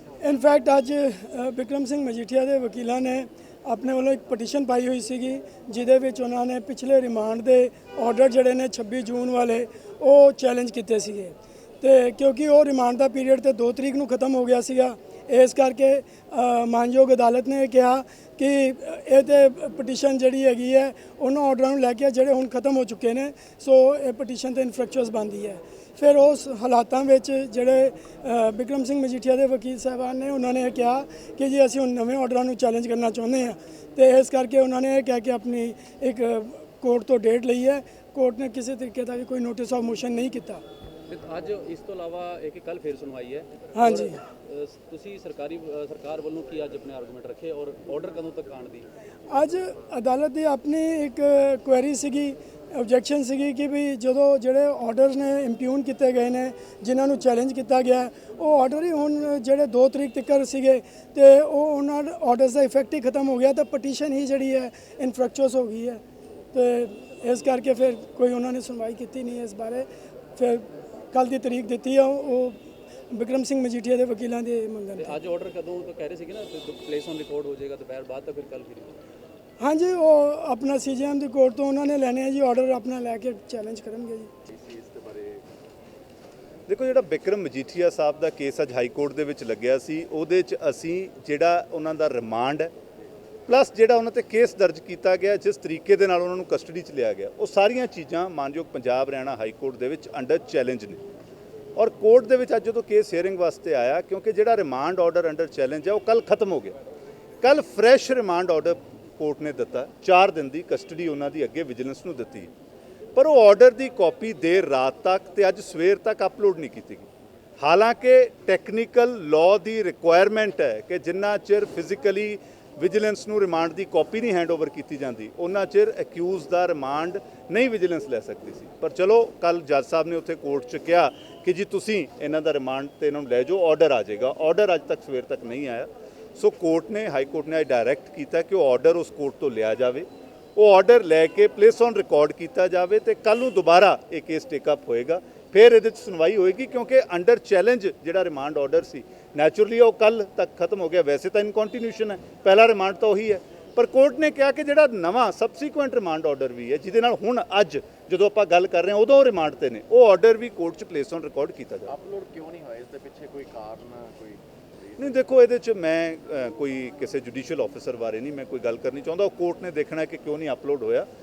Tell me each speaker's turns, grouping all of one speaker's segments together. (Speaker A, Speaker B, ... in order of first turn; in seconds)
Speaker A: 0.2-40.6, 43.7-44.2, 49.3-66.0, 66.5-72.6, 73.1-75.1, 79.6-84.3
Speaker B: 41.1-48.9, 75.0-79.0
Speaker C: 84.5-85.4, 161.9-165.3
Speaker D: 86.7-92.7, 93.5-101.0, 101.8-106.7, 107.4-112.5, 113.1-117.1, 117.6-161.9, 165.0-171.1